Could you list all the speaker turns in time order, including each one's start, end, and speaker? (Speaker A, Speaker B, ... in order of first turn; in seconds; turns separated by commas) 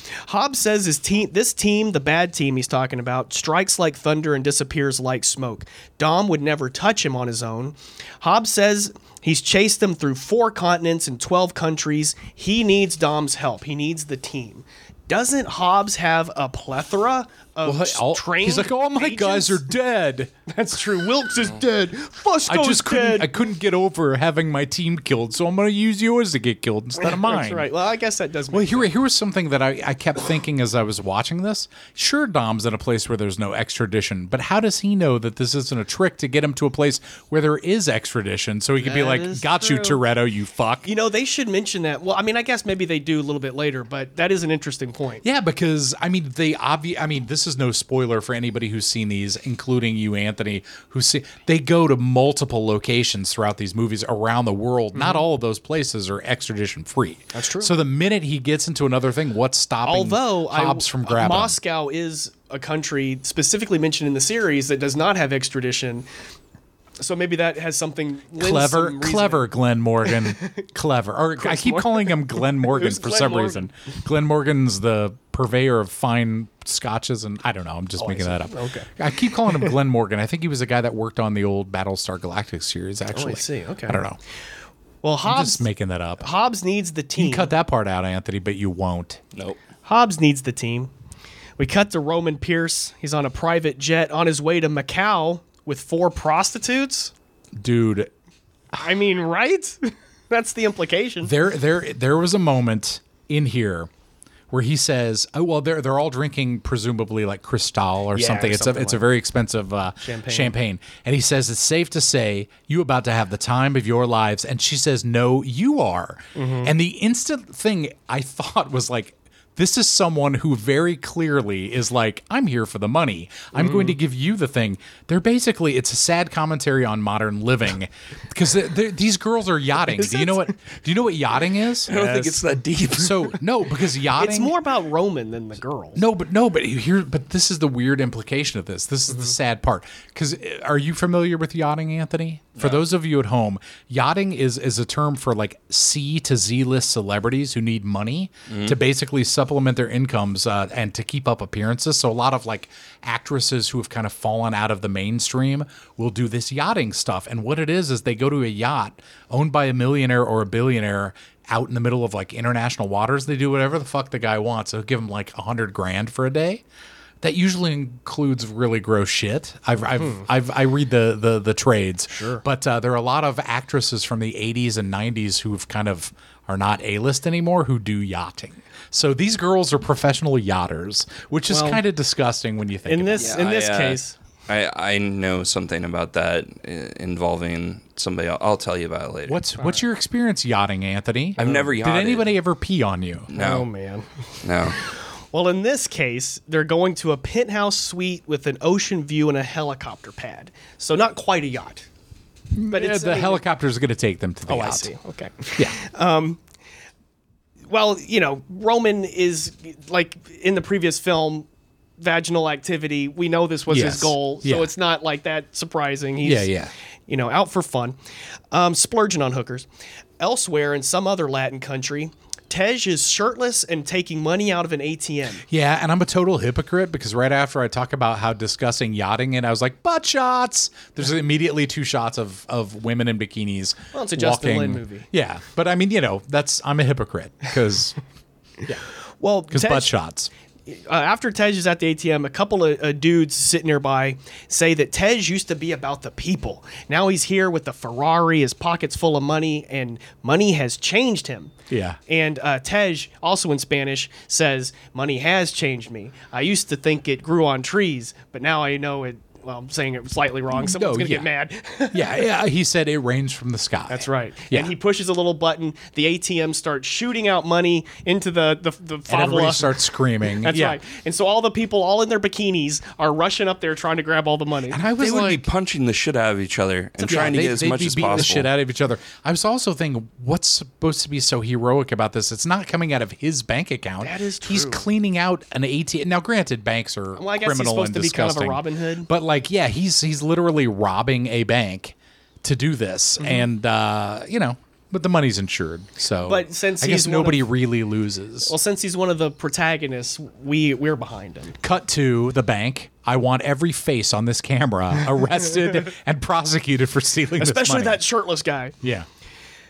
Speaker A: 0.2-19.6, Speaker B: 17.6-20.3, Speaker A: 20.5-23.3, Speaker B: 22.4-27.7, Speaker A: 27.0-28.9, Speaker B: 28.5-40.9, Speaker A: 38.8-40.0, Speaker A: 40.8-45.2, Speaker B: 45.2-61.6, Speaker A: 54.9-55.2, Speaker A: 57.3-57.7, Speaker A: 59.8-66.1, Speaker A: 67.0-69.5, Speaker B: 68.4-84.2, Speaker A: 70.0-70.6, Speaker A: 71.4-73.7, Speaker A: 78.0-78.9, Speaker A: 83.1-84.0, Speaker A: 85.0-85.7, Speaker B: 85.2-86.2, Speaker A: 86.2-87.5, Speaker B: 87.2-89.2, Speaker C: 89.3-89.6, Speaker A: 89.8-90.9, Speaker A: 91.6-97.1, Speaker B: 97.6-98.1, Speaker A: 98.8-101.3, Speaker B: 101.2-103.9, Speaker B: 104.5-132.4, Speaker A: 108.1-109.0, Speaker A: 110.0-110.5, Speaker A: 116.3-116.7, Speaker A: 123.5-124.0, Speaker A: 129.9-130.5, Speaker C: 131.8-133.4, Speaker B: 132.9-134.5, Speaker A: 134.1-136.0, Speaker B: 135.9-166.6, Speaker C: 142.6-142.8, Speaker C: 148.5-148.8, Speaker B: 167.2-183.4, Speaker A: 170.0-170.2, Speaker A: 172.1-172.4, Speaker A: 181.5-181.8, Speaker A: 182.8-184.1, Speaker C: 183.2-189.4, Speaker B: 189.3-193.3, Speaker C: 191.4-192.3, Speaker A: 191.4-191.7, Speaker C: 193.3-193.7, Speaker A: 193.3-201.8, Speaker C: 194.4-194.8, Speaker B: 202.5-204.9, Speaker A: 202.7-203.4, Speaker A: 204.5-206.4, Speaker A: 207.7-211.5, Speaker A: 212.0-216.5, Speaker B: 213.7-214.7, Speaker B: 216.2-216.7, Speaker A: 217.1-218.0, Speaker A: 218.5-219.7, Speaker A: 220.2-225.4, Speaker B: 225.5-238.0, Speaker A: 233.9-235.1, Speaker A: 239.2-239.9, Speaker B: 239.5-240.3, Speaker A: 240.7-251.5, Speaker B: 251.7-252.0, Speaker A: 252.1-262.2, Speaker B: 260.5-261.3, Speaker B: 261.9-264.7, Speaker A: 263.9-274.8, Speaker B: 269.1-270.8, Speaker B: 274.7-275.5, Speaker C: 275.0-278.5, Speaker A: 277.0-277.3, Speaker B: 277.1-298.5, Speaker A: 284.0-284.9, Speaker A: 287.1-289.1, Speaker A: 293.2-293.5, Speaker A: 296.2-297.4, Speaker A: 298.4-301.6, Speaker B: 301.6-308.1, Speaker A: 307.4-308.7, Speaker B: 308.8-309.1